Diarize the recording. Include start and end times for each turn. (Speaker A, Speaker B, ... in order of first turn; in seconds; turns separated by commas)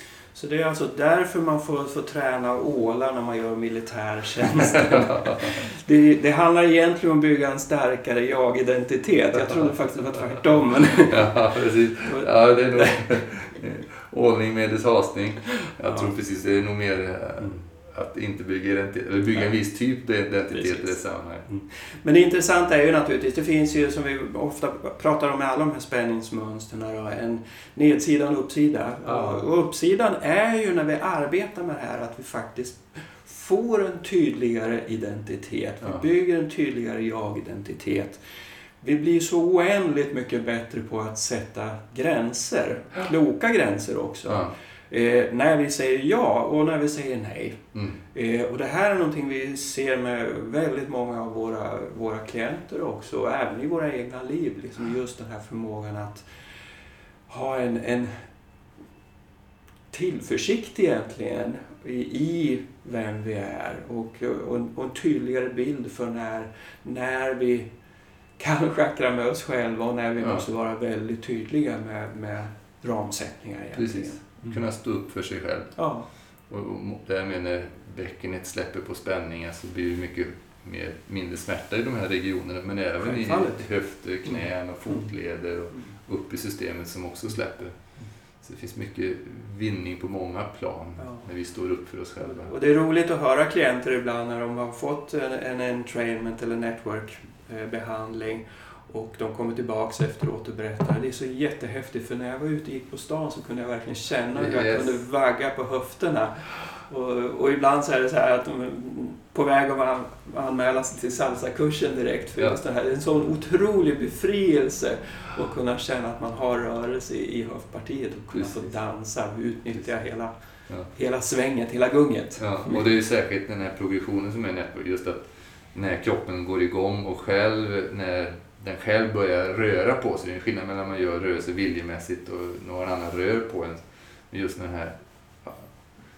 Speaker A: 0.3-11.4, Speaker B: 4.7-5.6, Speaker B: 11.0-21.6, Speaker A: 12.1-13.2, Speaker A: 20.5-20.9, Speaker A: 22.0-38.2, Speaker B: 29.1-29.4, Speaker A: 38.8-56.3, Speaker B: 44.3-44.5, Speaker A: 57.3-58.1, Speaker A: 59.9-67.7, Speaker A: 68.4-74.2, Speaker B: 73.8-75.8, Speaker A: 75.8-76.1, Speaker B: 76.5-87.8, Speaker A: 83.0-83.6, Speaker B: 88.4-92.5, Speaker A: 91.0-91.3, Speaker A: 92.2-120.3, Speaker B: 104.3-105.0, Speaker A: 120.9-122.8, Speaker B: 122.4-133.8, Speaker B: 134.3-135.7